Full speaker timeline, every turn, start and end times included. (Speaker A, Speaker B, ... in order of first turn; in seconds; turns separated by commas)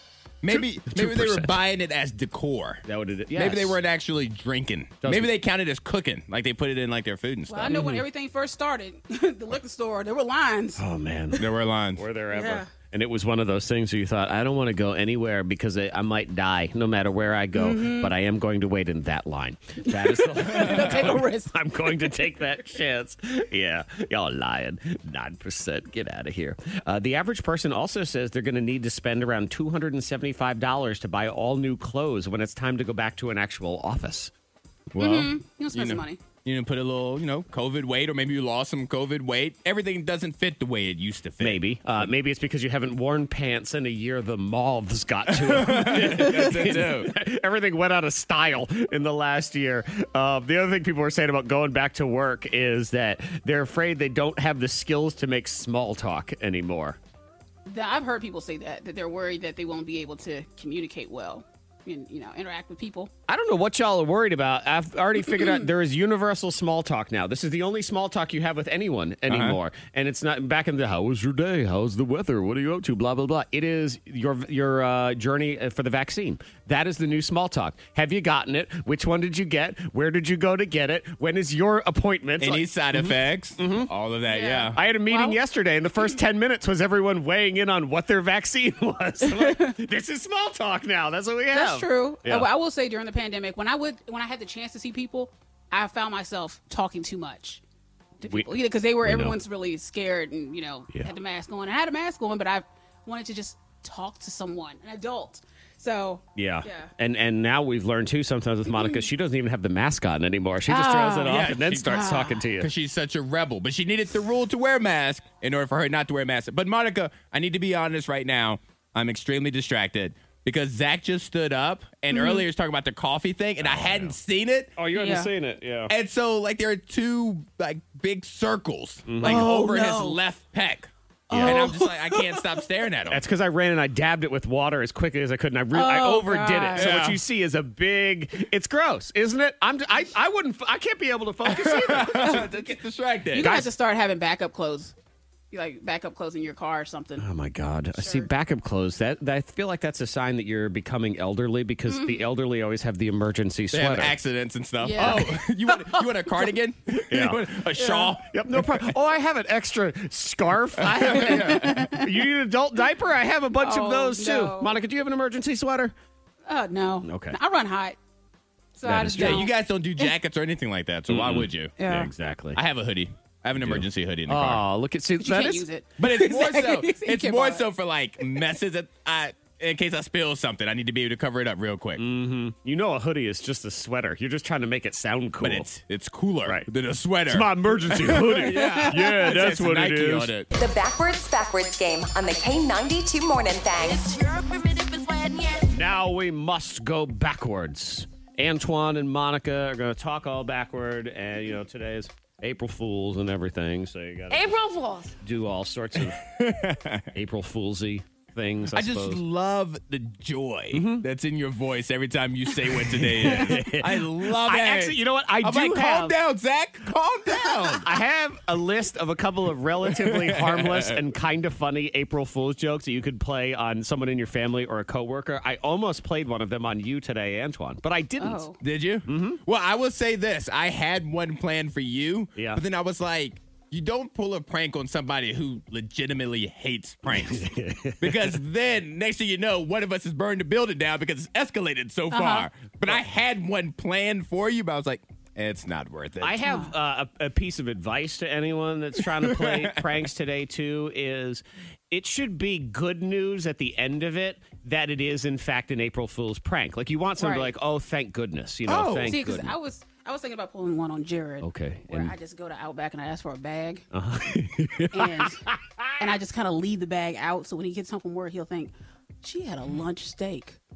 Speaker A: 0.4-7.8, Speaker B: 0.5-1.5, Speaker B: 2.9-3.8, Speaker B: 5.0-5.3, Speaker C: 7.5-10.8, Speaker B: 7.7-8.0, Speaker B: 10.8-34.3, Speaker A: 11.4-12.0, Speaker C: 12.3-12.7, Speaker C: 17.5-18.1, Speaker C: 19.9-21.6, Speaker A: 34.9-42.1, Speaker C: 35.0-36.2, Speaker B: 41.4-57.0, Speaker A: 45.3-47.1, Speaker C: 57.7-63.1, Speaker B: 63.3-83.9, Speaker C: 65.3-65.6, Speaker A: 69.3-69.6, Speaker A: 82.4-84.8, Speaker C: 84.3-85.4, Speaker B: 84.7-92.5, Speaker C: 89.2-89.8, Speaker C: 91.5-97.6, Speaker C: 98.2-106.9, Speaker B: 99.0-99.4, Speaker B: 106.3-112.7, Speaker C: 108.7-109.0, Speaker C: 110.7-112.4, Speaker A: 111.2-124.7, Speaker C: 122.1-122.5, Speaker B: 123.6-124.2, Speaker B: 124.8-125.9, Speaker C: 124.9-125.3, Speaker A: 125.9-133.2, Speaker B: 129.1-129.5, Speaker C: 129.2-130.2, Speaker B: 131.3-131.7, Speaker C: 131.3-132.6, Speaker B: 133.1-142.6, Speaker C: 135.7-136.9, Speaker A: 136.8-137.2, Speaker A: 141.4-143.7, Speaker C: 142.1-142.5, Speaker C: 143.3-144.9, Speaker B: 143.4-143.7, Speaker C: 145.5-147.3, Speaker B: 147.2-154.2, Speaker C: 147.9-148.3, Speaker C: 151.9-152.3, Speaker A: 153.7-158.9, Speaker C: 154.8-156.5, Speaker B: 156.9-157.6, Speaker C: 157.8-158.2, Speaker B: 158.2-165.9, Speaker A: 160.9-161.7, Speaker C: 161.0-162.2, Speaker C: 163.6-164.8, Speaker C: 166.5-168.0, Speaker B: 167.0-167.4, Speaker C: 168.8-170.1, Speaker B: 168.8-169.4, Speaker A: 169.1-171.8, Speaker B: 171.1-172.6, Speaker C: 171.8-172.1, Speaker A: 172.6-174.7, Speaker B: 173.6-175.7, Speaker C: 175.2-177.7, Speaker A: 176.0-182.0, Speaker B: 182.0-185.7, Speaker A: 185.4-190.5, Speaker B: 187.3-190.3, Speaker C: 188.6-189.0, Speaker D: 190.5-194.2, Speaker E: 193.9-195.7, Speaker B: 195.7-204.5, Speaker E: 204.3-205.2, Speaker B: 205.2-206.2, Speaker A: 206.0-207.1, Speaker B: 207.1-209.2, Speaker A: 208.7-218.0, Speaker B: 210.7-211.1, Speaker B: 212.9-216.2, Speaker B: 217.7-228.5, Speaker A: 219.9-221.0, Speaker C: 228.2-228.6, Speaker A: 228.6-237.5, Speaker B: 229.1-229.4, Speaker B: 232.4-232.6, Speaker B: 237.1-238.3, Speaker A: 238.0-246.4, Speaker C: 242.1-242.5, Speaker B: 246.2-259.5, Speaker C: 246.4-246.7, Speaker A: 249.2-249.9, Speaker C: 257.2-257.5, Speaker A: 258.7-259.2, Speaker C: 259.1-263.9, Speaker B: 261.4-262.1, Speaker B: 263.9-266.1, Speaker C: 264.9-265.4, Speaker C: 266.0-270.6